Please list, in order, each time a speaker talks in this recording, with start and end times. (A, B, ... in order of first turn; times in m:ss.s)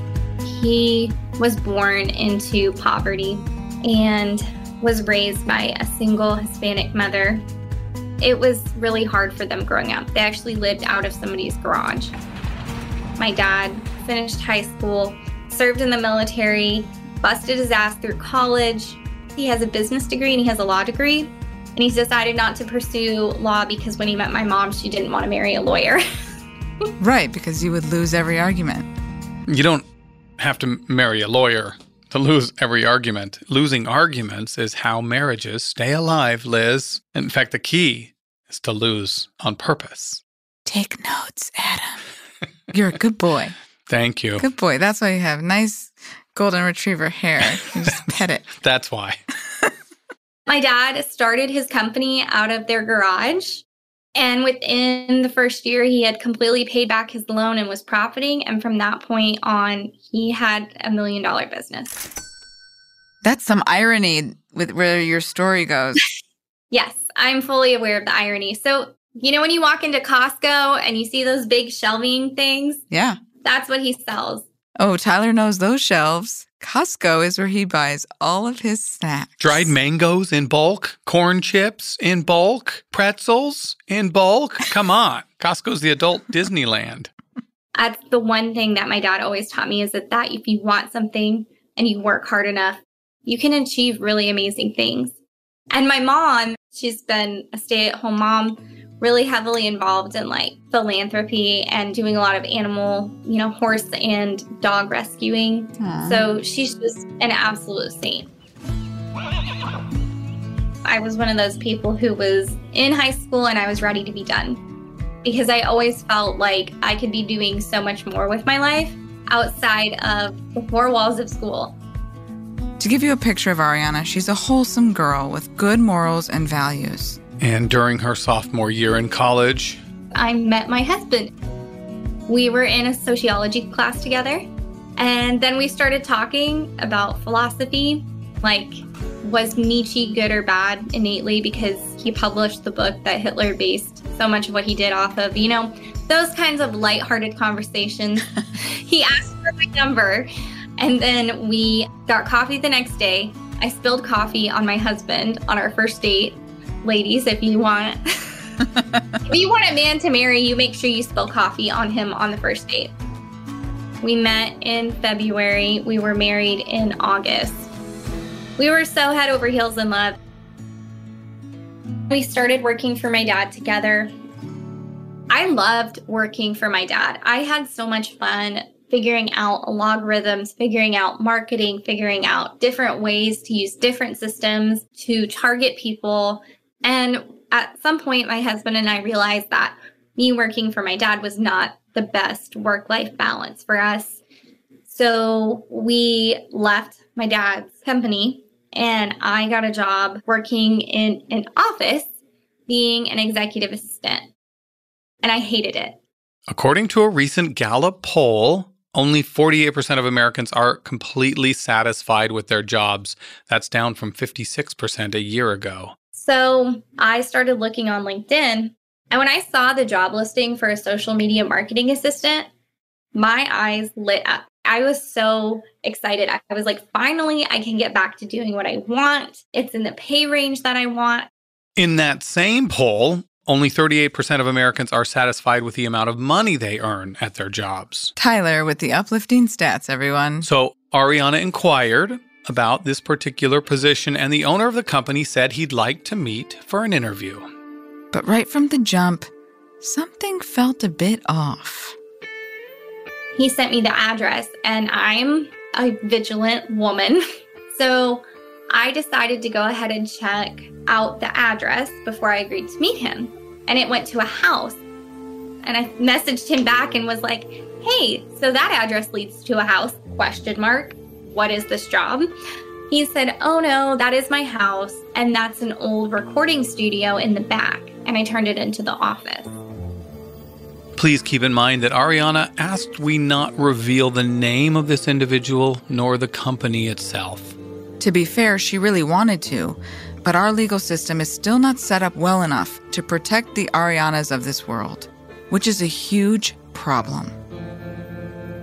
0:00.4-0:07.4 A
0:08.2-0:12.2 A
0:13.2-0:26.0 A
0:27.0-0:28.9 B
0:29.5-0:29.9 C
0:30.4-0:40.2 C
0:40.7-0:42.0 B
0:42.7-0:43.6 B
0:43.9-0:44.4 C
0:44.4-0:48.5 B
0:47.8-0:49.2 C
0:50.5-1:02.0 A
1:03.2-1:06.0 B
1:06.7-1:12.8 A
1:12.9-1:13.2 B
1:13.4-1:14.4 A
1:14.8-1:19.7 B
1:19.4-1:27.1 C
1:27.8-1:35.1 A
1:35.7-1:48.3 A
1:45.8-1:46.3 B
1:50.8-1:54.6 A
1:55.2-2:01.8 A
2:02.8-2:07.2 B
2:07.4-2:09.8 C
2:10.1-2:11.3 A
2:12.3-2:14.4 A
2:15.0-2:38.5 A
2:38.7-2:39.2 B
2:39.3-2:42.9 A
2:44.0-2:47.7 A
2:48.6-2:50.2 A
2:52.1-2:54.1 A
2:55.3-3:14.2 A
3:14.9-3:22.1 A
3:22.7-3:24.3 A
3:25.2-3:26.0 A
3:26.5-3:36.0 C
3:36.2-3:42.5 A
3:43.1-3:51.3 A
3:51.8-3:58.1 C
3:58.2-4:00.5 B
4:00.4-4:07.5 C
4:08.1-4:09.3 B
4:09.8-4:12.0 B
4:13.4-4:24.8 A
4:25.6-4:32.3 A
4:32.9-4:39.6 A
4:41.0-4:47.6 C
4:48.0-4:57.4 B